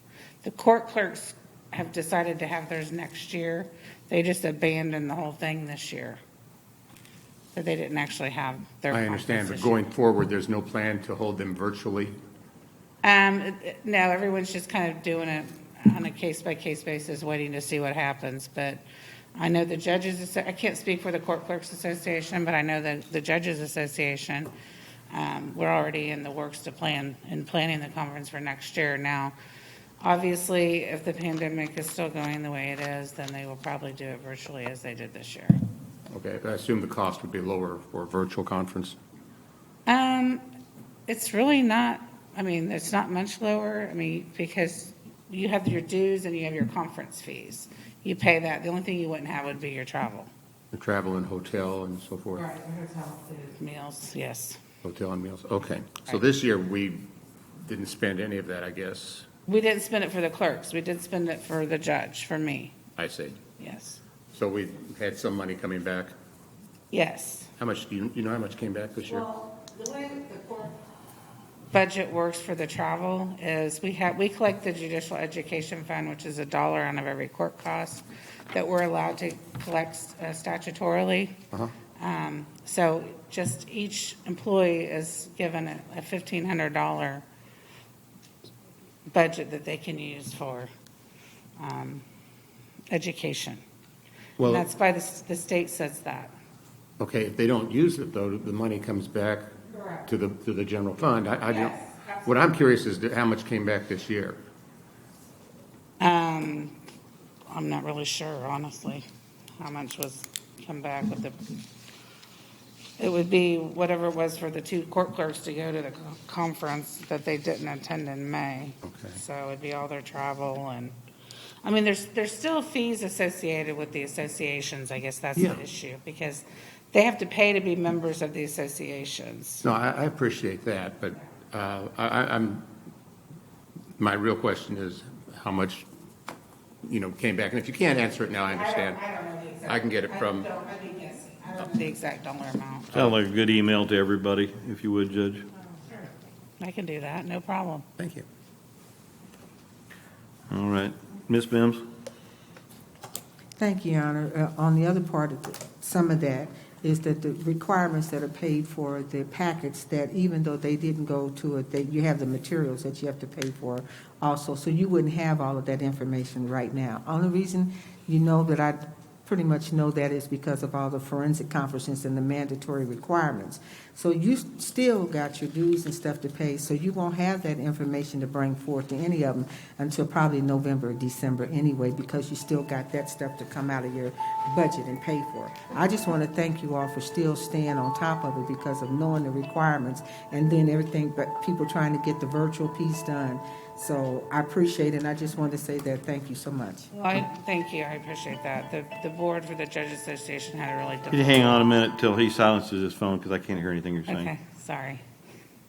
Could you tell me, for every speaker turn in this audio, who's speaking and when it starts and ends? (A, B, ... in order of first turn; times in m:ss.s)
0:00.4-0:06.2 A
0:07.5-0:09.8 A
0:08.9-0:12.1 B
0:13.0-0:18.8 A
0:19.4-0:24.5 A
0:25.1-0:29.3 A
0:30.0-0:35.6 A
0:36.1-0:39.0 B
0:39.8-0:40.4 A
0:41.1-0:50.3 A
0:50.7-0:52.5 B
0:52.4-0:54.6 A
0:54.8-0:57.1 B
0:57.6-0:59.3 B
0:59.5-1:02.8 A
1:03.0-1:03.4 B
1:03.6-1:04.0 A
1:04.3-1:06.1 B
1:06.9-1:07.5 A
1:07.6-1:09.2 B
1:09.1-1:10.7 A
1:11.7-1:21.4 A
1:22.0-1:27.2 A
1:29.1-1:30.7 A
1:31.6-1:32.0 A
1:32.9-1:33.6 A
1:34.4-1:34.7 B
1:34.5-1:36.3 A
1:37.0-1:39.5 B
1:39.7-1:40.0 A
1:40.0-1:44.4 B
1:41.5-1:42.2 A
1:46.0-1:46.8 A
1:47.5-1:49.0 A
1:49.6-1:51.6 A
1:53.0-2:00.9 A
1:58.9-1:59.2 B
2:01.6-2:09.6 A
2:09.6-2:12.7 B
2:14.0-2:15.8 B
2:16.8-2:19.0 B
2:18.6-2:22.9 A
2:19.6-2:20.5 B
2:22.9-2:25.4 C
2:26.6-2:27.9 A
2:28.0-2:28.2 B
2:30.5-2:31.8 C
2:33.6-3:16.9 D
3:16.9-3:21.7 A
3:21.1-3:24.3 C
3:24.1-3:25.0 A